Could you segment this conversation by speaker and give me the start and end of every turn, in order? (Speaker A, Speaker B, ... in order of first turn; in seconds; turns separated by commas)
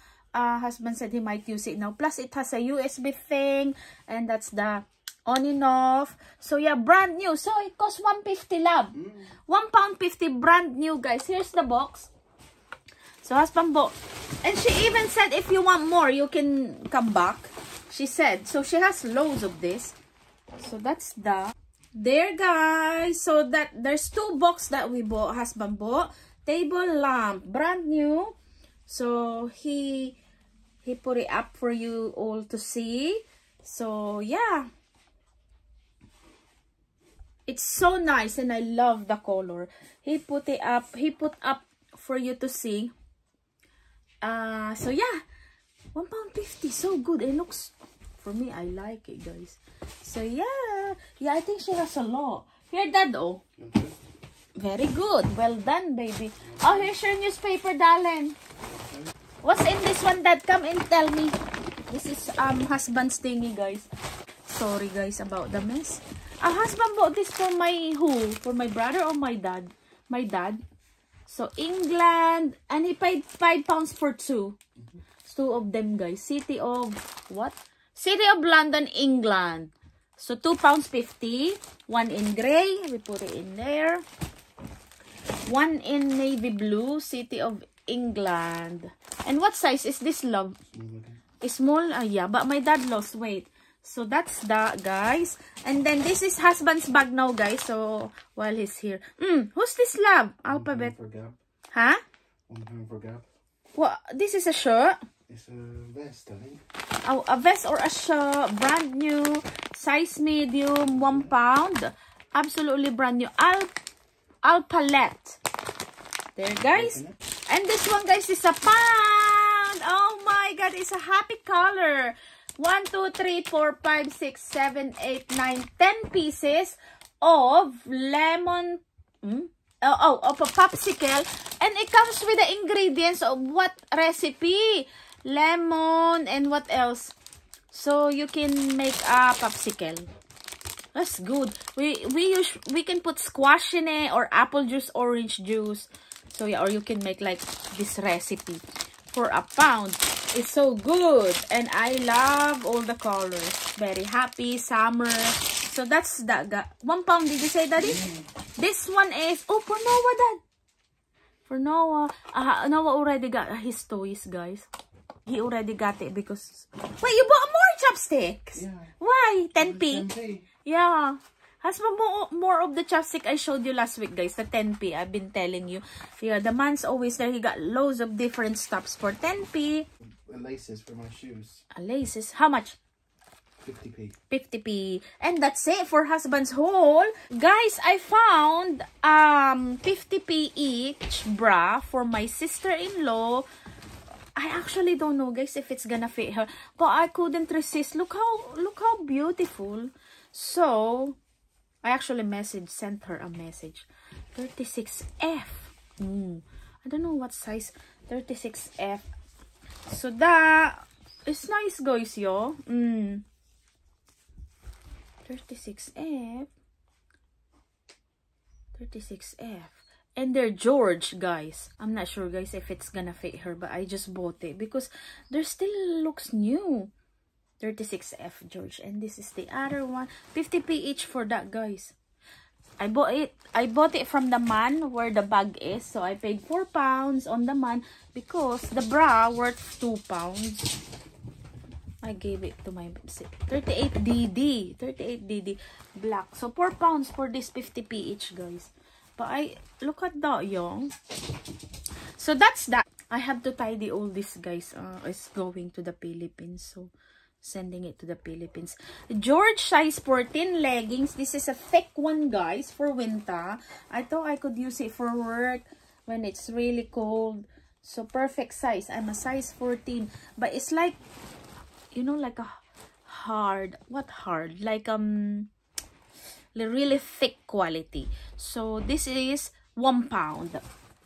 Speaker A: 0.3-12.1, Speaker B: 9.0-9.2, Speaker A: 13.2-19.9, Speaker A: 20.6-28.3, Speaker A: 28.9-30.2, Speaker A: 30.8-34.7, Speaker A: 37.5-42.9, Speaker A: 44.2-45.2, Speaker A: 45.9-53.4, Speaker B: 53.6-54.0, Speaker A: 54.6-58.4, Speaker B: 56.4-56.9, Speaker A: 59.4-61.4, Speaker A: 61.9-63.9, Speaker A: 64.5-70.6, Speaker A: 71.3-74.6, Speaker A: 75.2-84.0, Speaker A: 85.5-90.6, Speaker B: 90.7-91.2, Speaker A: 91.4-100.9, Speaker B: 100.5-101.4, Speaker A: 101.7-102.0, Speaker B: 102.5-103.2, Speaker A: 103.7-105.0, Speaker B: 105.3-106.6, Speaker A: 107.0-113.7, Speaker B: 110.9-111.3, Speaker A: 114.4-115.4, Speaker A: 116.3-137.1, Speaker B: 116.7-117.2, Speaker A: 137.7-140.1, Speaker A: 140.9-160.4, Speaker B: 157.8-158.2, Speaker A: 161.5-164.7, Speaker A: 165.2-170.1, Speaker B: 168.6-168.9, Speaker B: 169.6-170.5, Speaker A: 170.6-179.9, Speaker B: 180.2-181.6, Speaker A: 181.7-182.8, Speaker B: 183.6-184.1, Speaker A: 184.3-193.4, Speaker A: 194.3-201.2, Speaker A: 201.8-209.1, Speaker A: 209.9-213.2, Speaker A: 215.2-216.5, Speaker A: 218.7-226.9, Speaker A: 227.6-231.9, Speaker A: 232.8-240.8, Speaker A: 242.0-250.9, Speaker A: 252.2-256.9, Speaker A: 257.4-271.0, Speaker A: 271.9-272.5, Speaker A: 273.1-275.5, Speaker A: 276.6-280.6